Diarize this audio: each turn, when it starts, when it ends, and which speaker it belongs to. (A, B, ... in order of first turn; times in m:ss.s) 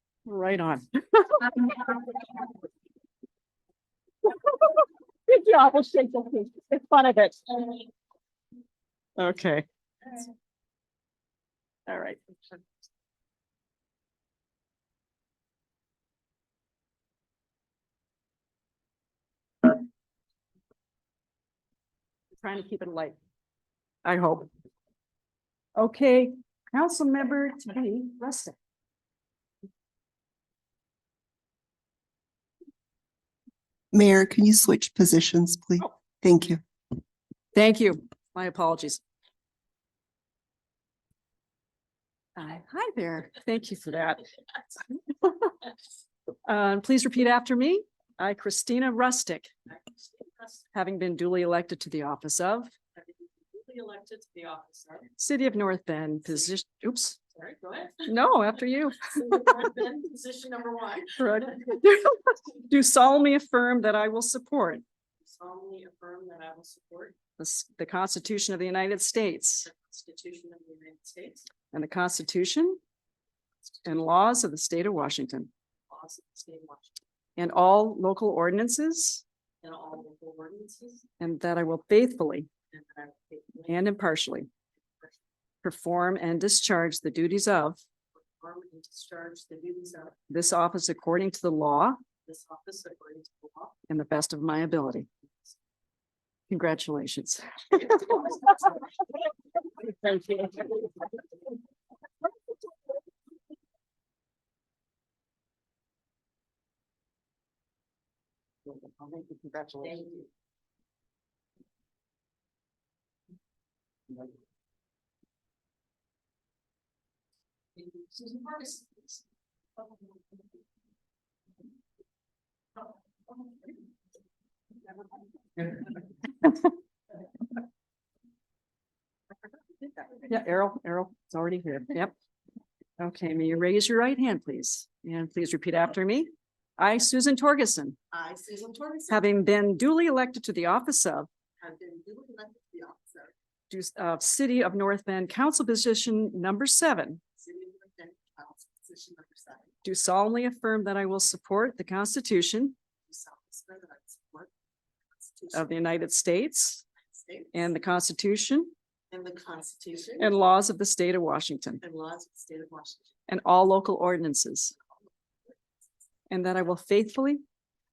0:00.3-0:02.3 A
0:04.3-0:07.9 A
0:09.2-0:09.7 A
0:11.9-0:12.2 A
0:22.4-0:23.2 A
0:24.0-0:24.5 A
0:25.8-0:28.6 A
0:33.9-0:36.6 B
0:37.6-0:39.0 A
0:42.4-0:44.3 A
0:46.5-0:49.5 A
0:49.7-0:50.6 C
0:50.7-0:52.7 A
0:53.0-0:55.1 C
0:55.2-0:57.2 A
0:57.3-0:58.1 C
0:58.0-0:59.7 A
0:59.2-1:01.4 C
1:01.2-1:04.8 A
1:05.2-1:07.2 C
1:07.4-1:09.7 A
1:09.7-1:11.5 C
1:11.7-1:12.8 A
1:13.8-1:15.5 A
1:15.9-1:16.9 C
1:17.4-1:19.2 A
1:19.6-1:21.1 C
1:21.2-1:22.5 A
1:22.7-1:23.7 C
1:23.6-1:24.5 A
1:25.6-1:27.8 A
1:28.3-1:30.3 C
1:30.3-1:32.0 A
1:32.3-1:33.8 C
1:33.9-1:35.1 A
1:36.5-1:38.6 A
1:39.8-1:40.9 A
1:48.8-1:50.0 A
1:49.8-1:50.3 C
1:58.2-1:58.8 C
2:09.8-2:10.3 C
2:10.3-2:12.1 A
2:13.0-2:18.0 A
2:18.1-2:19.2 C
2:19.1-2:21.3 A
2:21.6-2:23.3 C
2:23.7-2:27.2 A
2:27.4-2:29.7 C
2:29.8-2:32.8 A
2:33.1-2:34.5 C
2:35.2-2:35.7 C
2:35.5-2:36.8 A
2:37.1-2:37.5 C
2:37.5-2:38.7 A
2:39.1-2:40.3 C
2:40.2-2:41.8 A
2:41.8-2:43.2 C
2:43.3-2:44.7 A
2:46.3-2:47.4 A